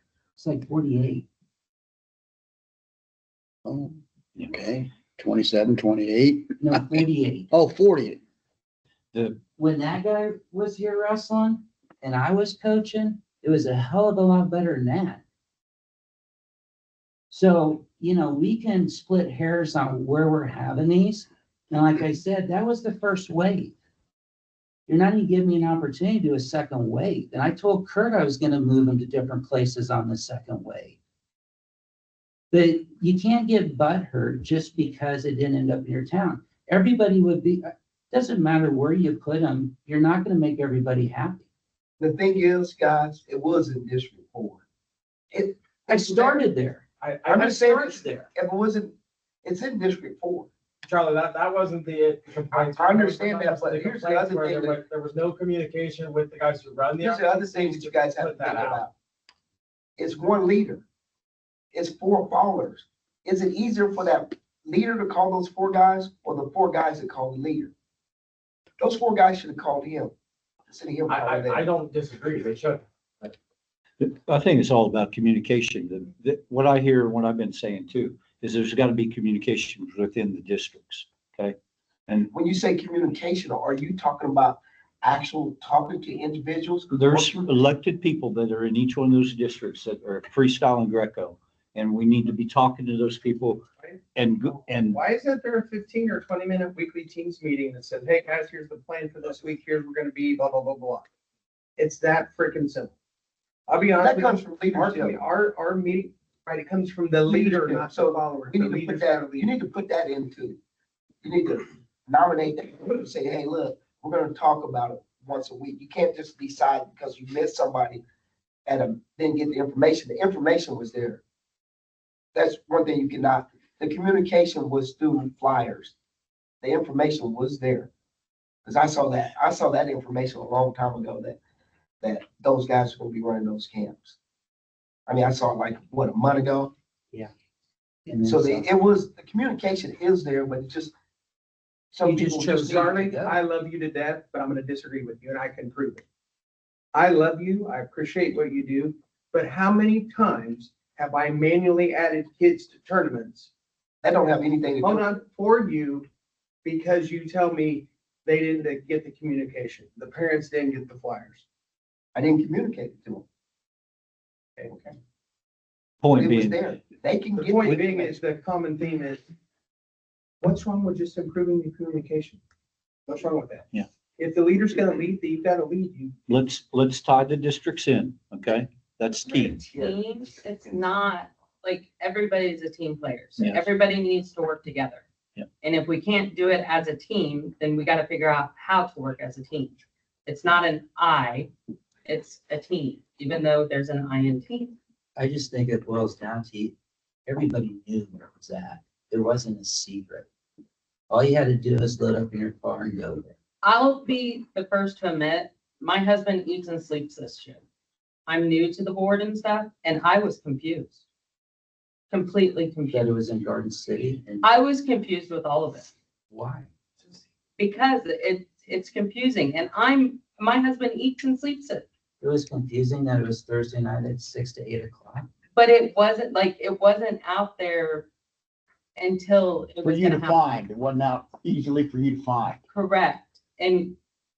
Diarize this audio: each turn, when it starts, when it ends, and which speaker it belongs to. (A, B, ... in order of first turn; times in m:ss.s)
0:00.4-0:01.2 A
0:03.7-0:03.9 B
0:04.5-0:06.4 B
0:06.6-0:07.5 A
0:07.5-0:08.2 B
0:09.1-0:09.4 C
0:09.6-0:15.2 A
0:17.3-0:23.7 A
0:24.9-0:31.0 A
0:32.5-0:41.4 A
0:42.0-0:44.6 D
0:45.3-0:46.4 D
0:45.9-0:46.8 A
0:47.0-0:48.1 E
0:47.2-0:50.5 D
0:50.8-0:58.8 E
0:52.5-0:54.8 D
0:57.0-0:58.9 D
1:00.0-1:00.8 D
1:01.7-1:07.7 D
1:08.8-1:10.1 D
1:10.7-1:11.7 D
1:11.1-1:13.3 E
1:14.0-1:21.6 C
1:22.3-1:27.5 D
1:26.9-1:35.0 C
1:34.9-1:41.0 F
1:41.8-1:42.9 F
1:43.7-1:49.5 F
1:44.0-1:45.2 D
1:47.3-1:50.6 D
1:51.2-1:58.0 D
1:58.6-2:01.2 D
2:02.3-2:05.9 D
2:06.6-2:07.9 D
2:08.6-2:11.4 D
2:12.0-2:14.2 D
2:15.1-2:16.7 D
2:18.1-2:18.7 A
2:18.2-2:20.9 D
2:21.9-2:22.9 D
2:22.0-2:23.4 A
2:22.6-2:26.0 F
2:26.9-2:33.5 F
2:34.0-2:35.0 D
2:34.8-2:36.1 F
2:36.6-2:41.4 F
2:42.1-2:43.2 D
2:46.0-2:46.7 C
2:46.1-2:48.2 D
2:47.4-2:49.2 F
2:50.4-2:52.4 F
2:53.1-2:56.1 F
2:56.3-2:59.6 C
2:59.5-3:05.0 G
3:03.4-3:03.7 C
3:05.6-3:11.5 G
3:12.0-3:14.8 G
3:15.2-3:16.7 A
3:17.3-3:20.3 A
3:21.1-3:23.3 A
3:23.6-3:27.6 G
3:28.2-3:31.0 G
3:32.1-3:33.1 G
3:32.9-3:34.4 A
3:34.4-3:35.9 G
3:36.3-3:36.7 A
3:37.6-3:41.8 G
3:42.2-3:45.3 A
3:45.5-3:48.1 G
3:49.0-3:50.4 G
3:49.8-3:52.6 B
3:52.7-3:54.0 G